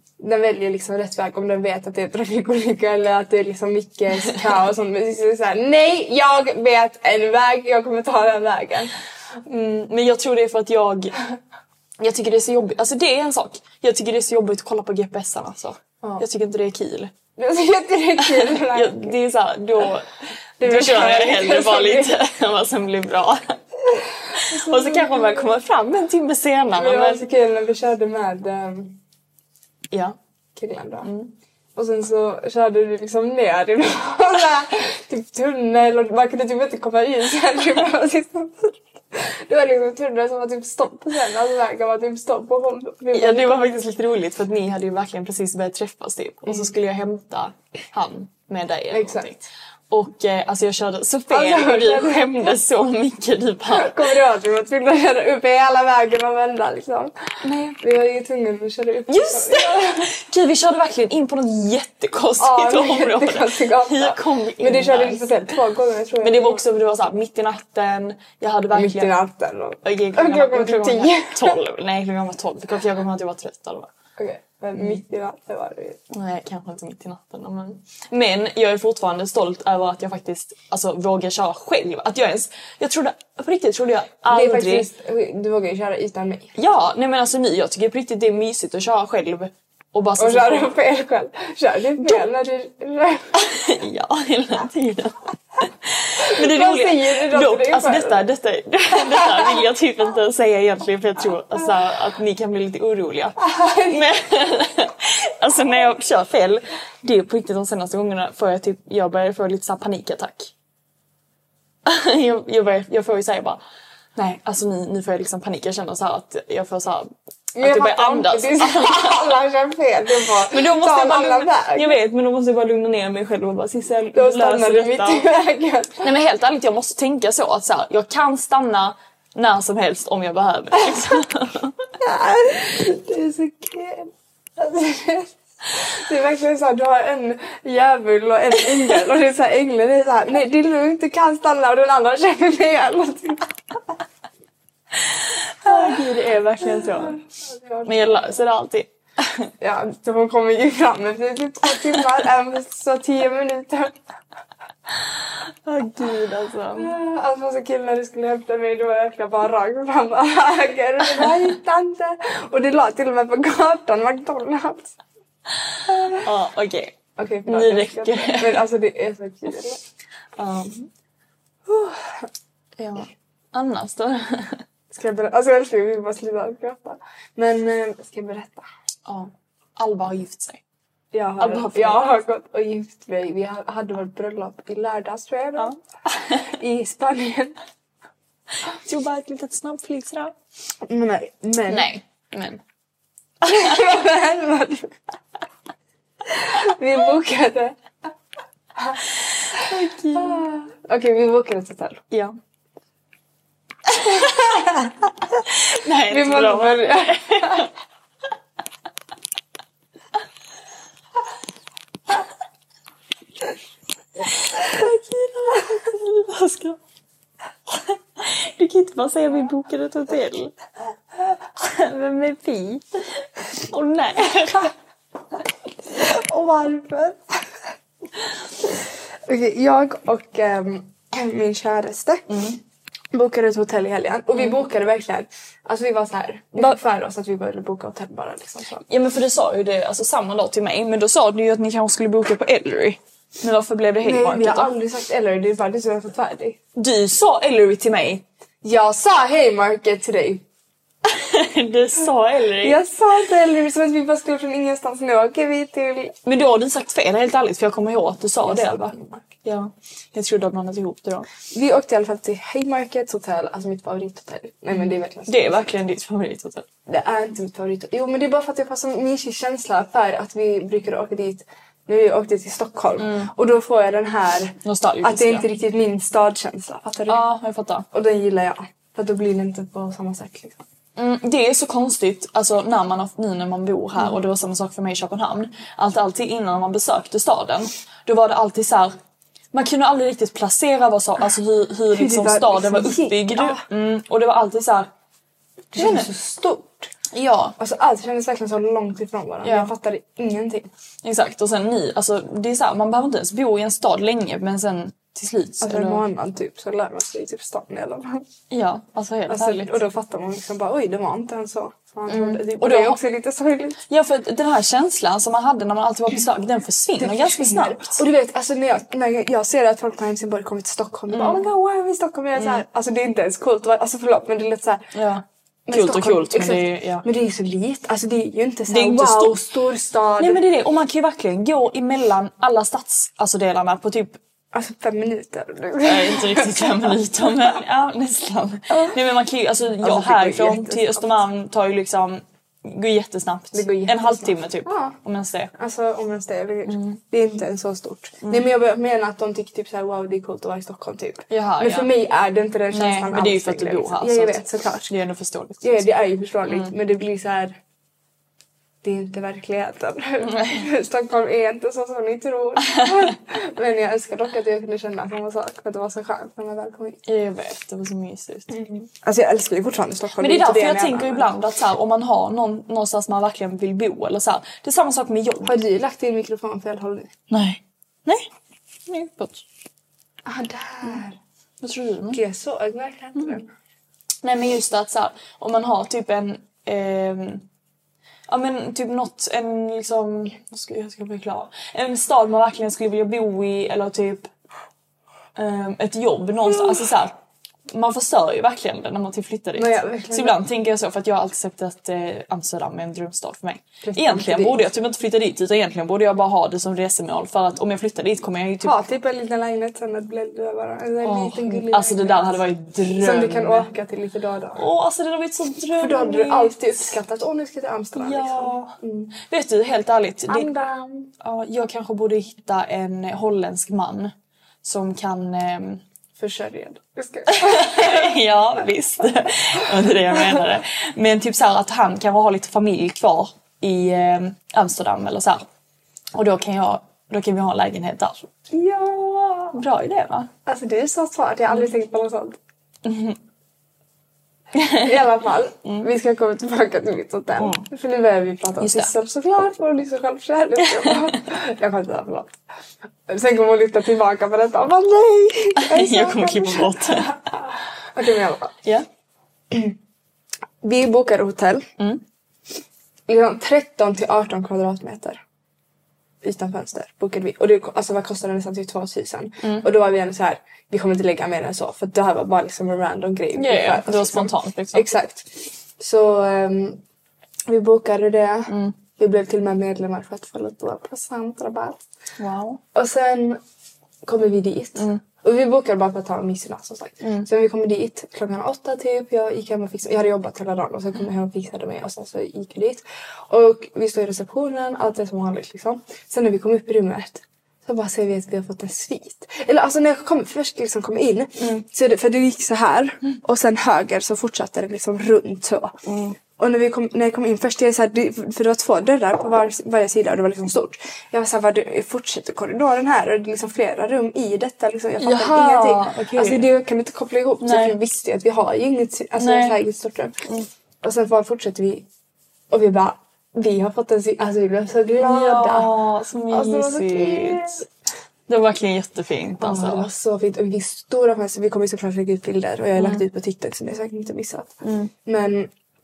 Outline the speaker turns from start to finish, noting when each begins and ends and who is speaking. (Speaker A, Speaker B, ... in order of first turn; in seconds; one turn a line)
Speaker A: 0.2-8.9
Speaker B: 9.4-11.2
Speaker B: 12.0-17.1
Speaker A: 17.4-19.1
Speaker B: 18.2-23.6
Speaker A: 20.6-22.2
Speaker B: 24.3-27.2
Speaker A: 24.4-25.6
Speaker A: 26.7-29.0
Speaker B: 29.9-30.1
Speaker A: 30.5-31.1
Speaker B: 31.0-31.3
Speaker A: 31.8-43.7
Speaker B: 43.1-54.1
Speaker A: 46.5-46.7
Speaker A: 48.9-49.3
Speaker A: 51.3-52.5
Speaker A: 53.7-57.2
Speaker B: 57.4-57.8
Speaker A: 57.8-60.1
Speaker B: 59.1-65.5
Speaker A: 62.4-66.6
Speaker B: 66.2-69.1
Speaker A: 68.7-71.6
Speaker B: 69.8-73.9
Speaker A: 74.2-76.0
Speaker B: 76.1-84.9
Speaker A: 84.3-86.6
Speaker B: 86.6-90.7
Speaker A: 90.2-93.4
Speaker B: 93.3-110.5
Speaker A: 96.2-98.2
Speaker A: 99.0-99.5
Speaker A: 103.4-104.0
Speaker B: 111.8-113.6
Speaker B: 114.2-119.4
Speaker A: 117.5-122.0
Speaker B: 120.4-125.3
Speaker A: 124.1-126.1
Speaker B: 126.0-131.8
Speaker A: 132.0-143.6
Speaker B: 145.0-147.2
Speaker A: 145.7-146.0
Speaker A: 146.7-148.4
Speaker B: 147.8-149.5
Speaker A: 149.6-154.0
Speaker B: 155.6-156.9
Speaker A: 156.8-164.9
Speaker A: 165.8-166.2
Speaker B: 166.0-166.9
Speaker A: 167.2-169.8
Speaker B: 167.5-168.7
Speaker B: 170.4-170.9
Speaker A: 171.7-172.3
Speaker B: 172.8-174.6
Speaker A: 174.9-178.7
Speaker B: 179.1-180.6
Speaker A: 181.1-185.8
Speaker B: 181.4-182.1
Speaker B: 185.6-186.5
Speaker A: 186.4-187.6
Speaker B: 188.8-190.3
Speaker A: 190.8-191.9
Speaker B: 191.7-192.6
Speaker A: 193.4-194.9
Speaker A: 196.3-197.8
Speaker A: 198.8-202.0
Speaker B: 199.5-200.4
Speaker A: 203.9-205.4
Speaker B: 205.6-207.7
Speaker A: 206.0-207.7
Speaker B: 214.4-216.8
Speaker B: 217.7-220.5
Speaker B: 221.6-224.7
Speaker A: 225.9-227.5
Speaker A: 229.2-232.4
Speaker B: 232.3-232.6
Speaker A: 233.1-238.8
Speaker B: 238.9-244.7
Speaker A: 244.0-246.6
Speaker B: 246.8-248.2
Speaker A: 248.6-250.4
Speaker B: 251.1-252.8
Speaker A: 252.6-256.1
Speaker B: 256.2-261.3
Speaker A: 258.4-259.3
Speaker A: 261.5-265.6
Speaker B: 265.3-266.6
Speaker A: 266.9-277.2
Speaker B: 273.0-273.3
Speaker B: 274.6-275.5
Speaker B: 277.1-277.9
Speaker A: 277.9-280.6
Speaker B: 280.9-288.9
Speaker B: 289.5-294.9
Speaker A: 291.9-293.6
Speaker A: 295.7-296.9
Speaker B: 295.8-296.1
Speaker B: 297.1-297.6
Speaker A: 297.6-300.7
Speaker B: 299.4-299.7
Speaker B: 301.0-306.0
Speaker A: 305.6-308.2
Speaker B: 308.5-309.8
Speaker A: 309.3-313.8
Speaker B: 312.1-313.0
Speaker B: 313.9-318.0
Speaker A: 317.0-324.9
Speaker B: 321.1-321.5
Speaker B: 322.4-322.6
Speaker B: 324.9-327.1
Speaker A: 325.7-330.4
Speaker B: 328.7-329.4
Speaker B: 330.2-334.2
Speaker A: 334.5-337.3
Speaker B: 335.8-345.5
Speaker A: 338.7-339.0
Speaker A: 339.8-341.2
Speaker A: 343.5-344.9
Speaker A: 345.6-354.9
Speaker B: 346.7-347.0
Speaker B: 351.3-351.9
Speaker B: 352.7-355.9
Speaker A: 355.6-357.6
Speaker B: 356.5-356.7
Speaker A: 358.8-367.0
Speaker B: 360.3-360.6
Speaker B: 367.1-368.6
Speaker A: 368.5-371.4
Speaker B: 370.2-375.6
Speaker A: 375.4-377.1
Speaker B: 377.3-378.3
Speaker B: 378.9-379.4
Speaker A: 380.2-381.2
Speaker B: 381.6-382.2
Speaker A: 382.1-383.5
Speaker B: 384.2-387.4
Speaker B: 388.3-394.3
Speaker B: 395.4-397.1
Speaker A: 396.5-396.8
Speaker B: 397.7-408.8
Speaker A: 399.5-400.4
Speaker A: 403.8-404.6
Speaker A: 408.6-414.6
Speaker B: 411.0-413.7
Speaker B: 414.6-416.7
Speaker A: 415.8-419.1
Speaker B: 417.9-420.5
Speaker A: 420.3-421.1
Speaker B: 421.2-424.1
Speaker B: 424.6-425.8
Speaker A: 426.2-428.1
Speaker B: 427.3-435.4
Speaker B: 436.1-438.3
Speaker A: 438.5-439.6
Speaker B: 439.5-440.3
Speaker A: 440.4-442.4
Speaker B: 442.8-443.2
Speaker B: 444.5-444.9
Speaker A: 444.6-452.3
Speaker B: 445.6-445.9
Speaker B: 447.4-447.6
Speaker B: 448.6-448.9
Speaker A: 453.1-458.6
Speaker B: 455.6-457.1
Speaker A: 459.5-459.8
Speaker A: 460.6-461.7
Speaker A: 463.1-465.2
Speaker A: 466.2-476.8
Speaker B: 473.4-474.9
Speaker A: 477.5-481.8
Speaker B: 482.2-482.6
Speaker A: 482.7-483.4
Speaker A: 484.0-505.8
Speaker B: 487.0-487.3
Speaker B: 505.8-506.2
Speaker A: 506.4-520.3
Speaker B: 515.0-516.5
Speaker B: 517.4-517.8
Speaker B: 519.2-519.6
Speaker A: 520.8-521.9
Speaker A: 522.5-525.7
Speaker B: 525.0-527.6
Speaker A: 526.3-527.6
Speaker B: 528.3-529.9
Speaker A: 529.4-534.5
Speaker B: 532.8-533.0
Speaker B: 534.6-534.9
Speaker A: 535.0-535.5